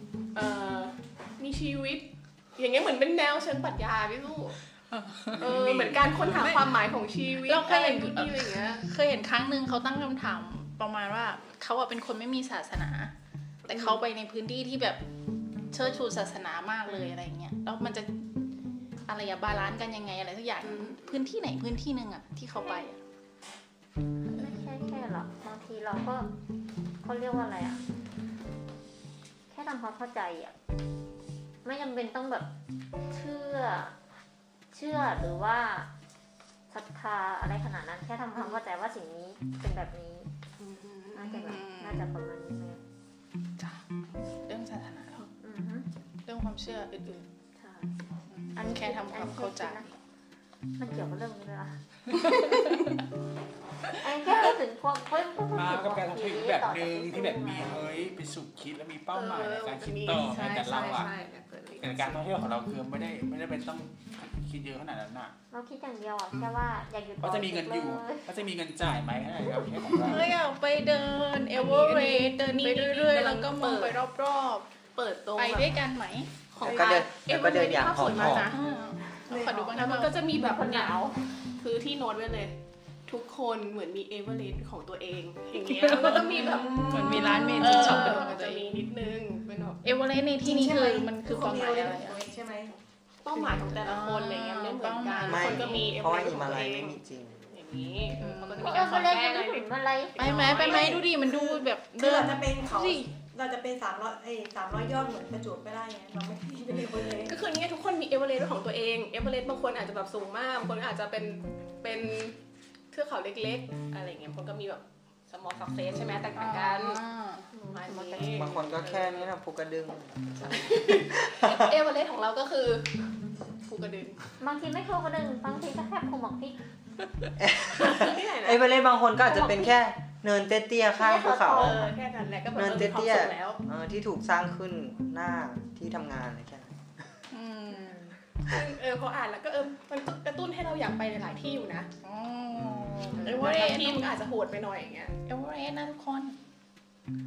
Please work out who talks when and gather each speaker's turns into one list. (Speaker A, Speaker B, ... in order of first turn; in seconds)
Speaker A: 0.3-4.6, 5.4-8.8, 20.6-21.2, 40.6-41.2, 59.1-62.2, 71.5-74.0, 75.0-75.7, 76.5-78.6, 79.8-81.0, 81.6-82.5, 83.1-86.7, 87.6-89.8, 93.3-97.0, 97.5-100.8, 107.3-112.4, 112.9-117.0, 117.8-119.1, 120.5-122.9, 123.7-124.3, 127.8-128.6, 131.7-133.6, 138.4-141.9, 143.2-145.1
Speaker B: 4.9-5.5, 6.2-6.7, 7.4-13.1, 13.7-15.0, 15.7-18.3, 19.1-23.0, 41.2-42.1, 43.6-45.3, 46.3-47.3, 48.3-50.0, 52.1-52.9, 70.0-74.7, 75.4-76.3, 78.3-80.4, 85.8-88.8, 89.8-92.2, 93.8-96.0, 98.2-99.0, 100.2-103.1, 116.4-117.5, 137.3-138.0, 142.0-144.1, 145.2-146.4
Speaker C: 5.4-6.1, 55.5-61.1, 61.8-65.3, 67.2-70.3
Speaker D: 24.3-26.3, 27.0-27.8, 29.5-30.5, 31.6-32.5, 33.1-33.9, 34.7-35.9, 36.7-40.3, 41.1-42.8, 45.4-45.9, 47.6-47.9, 48.6-49.9, 50.8-51.8, 54.0-57.9, 65.5-68.3, 80.2-81.4, 86.4-86.8, 87.4-88.6, 96.1-96.5, 98.6-101.0, 117.5-118.8, 124.4-126.6, 129.2-129.7, 130.9-132.0, 137.7-138.2
Speaker E: 76.6-78.5, 95.3-97.4, 118.3-120.5, 121.3-121.7, 127.4-131.9, 132.6-136.7
Speaker F: 76.7-77.0, 79.3-79.9, 86.5-88.4, 90.4-94.0, 100.5-107.4